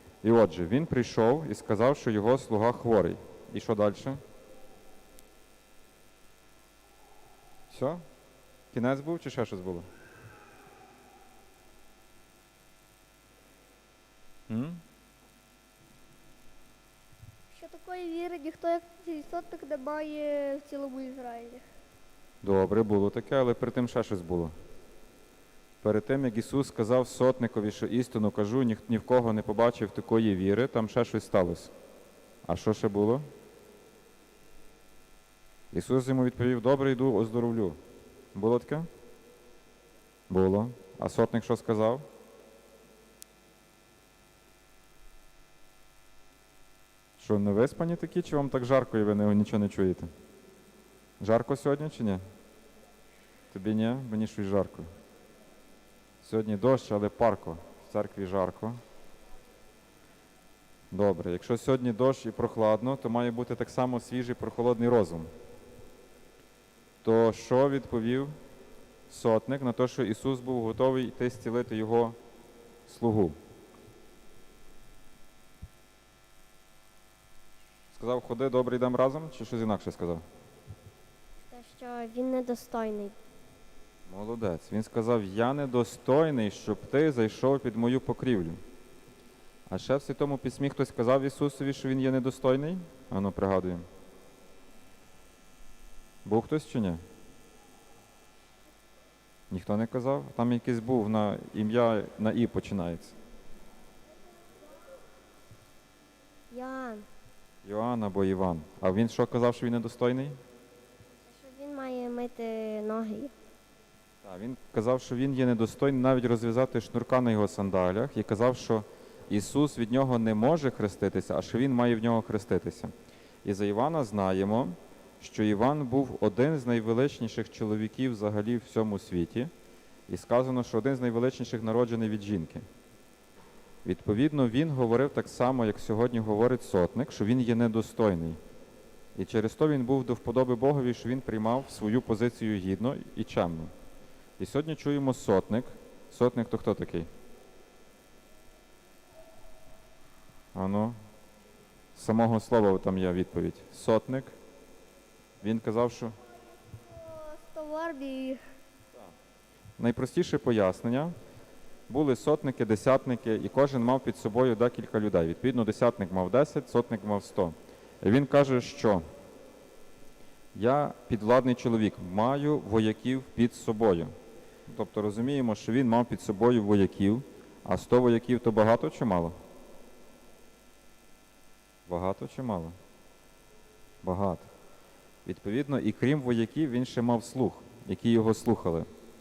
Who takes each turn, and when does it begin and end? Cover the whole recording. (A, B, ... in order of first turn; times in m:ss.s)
0:00.2-0:04.2 A
0:07.7-0:08.0 A
0:08.7-0:09.9 A
0:14.5-0:14.8 A
0:17.6-0:21.6 B
0:22.4-0:24.5 A
0:25.8-0:31.7 A
0:32.4-0:33.2 A
0:35.7-0:37.8 A
0:38.3-0:38.9 A
0:40.3-0:42.0 A
0:47.2-0:50.1 A
0:51.2-0:52.2 A
0:53.5-0:54.9 A
0:56.2-0:58.8 A
1:00.9-1:05.3 A
1:07.0-1:08.3 A
1:09.1-1:12.2 A
1:12.9-1:13.4 A
1:17.9-1:20.2 A
1:21.5-1:23.2 C
1:24.1-1:28.6 A
1:29.7-1:33.8 A
1:36.2-1:37.0 A
1:39.5-1:43.2 A
1:46.5-1:47.0 C
1:47.6-1:50.4 A
1:51.3-1:53.3 C
1:54.2-2:02.9 A
2:03.4-2:09.5 A
2:10.1-2:12.6 A
2:13.8-2:18.4 A
2:19.2-2:23.7 A
2:24.4-2:27.1 A
2:30.6-2:31.0 A
2:32.0-2:34.3 A
2:35.4-2:36.2 A
2:36.8-2:37.5 C
2:37.5-2:38.4 B
2:39.8-2:41.1 A
2:41.9-2:49.0 A
2:50.6-2:54.1 A
2:54.7-2:59.3 A
3:01.9-3:02.8 A
3:04.0-3:04.5 A
3:05.2-3:08.9 A